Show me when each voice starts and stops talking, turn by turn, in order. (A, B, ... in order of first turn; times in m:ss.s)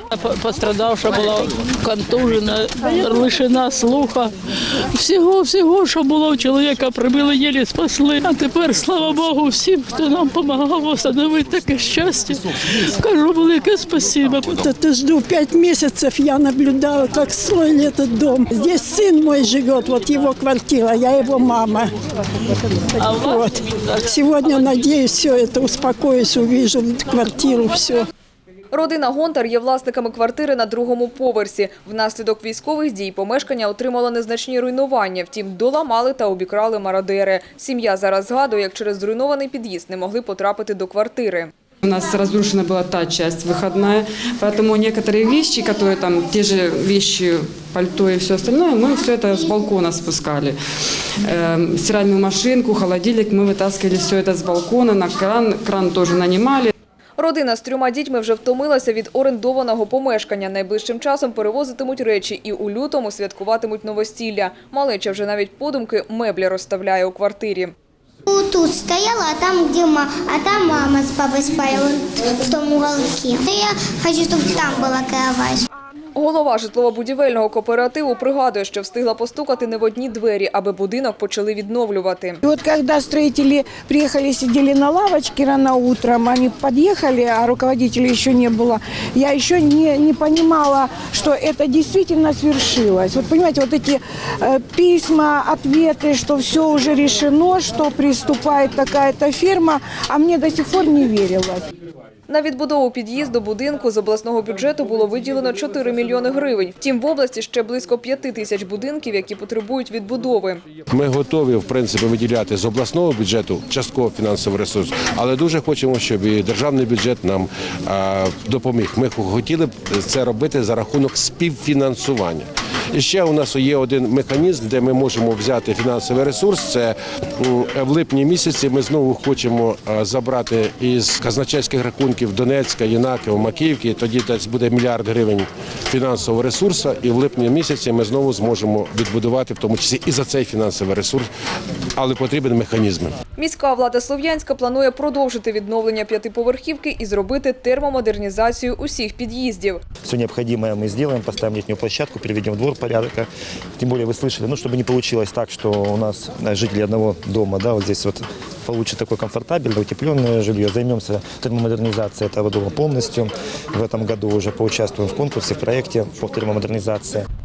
0:00.2-0:04.3 A
0:04.9-0:14.6 A
0:14.4-0:21.9 B
0:23.0-0:28.1 B
0:28.7-0:41.5 C
0:41.8-0:50.6 D
0:51.2-0:56.7 D
0:57.2-1:07.7 C
1:08.3-1:15.6 E
1:16.2-1:22.4 C
1:22.4-1:41.7 F
1:42.3-1:50.6 C
1:50.9-2:21.3 G
2:22.0-2:23.1 G
2:23.4-2:29.8 C
2:30.0-2:47.2 H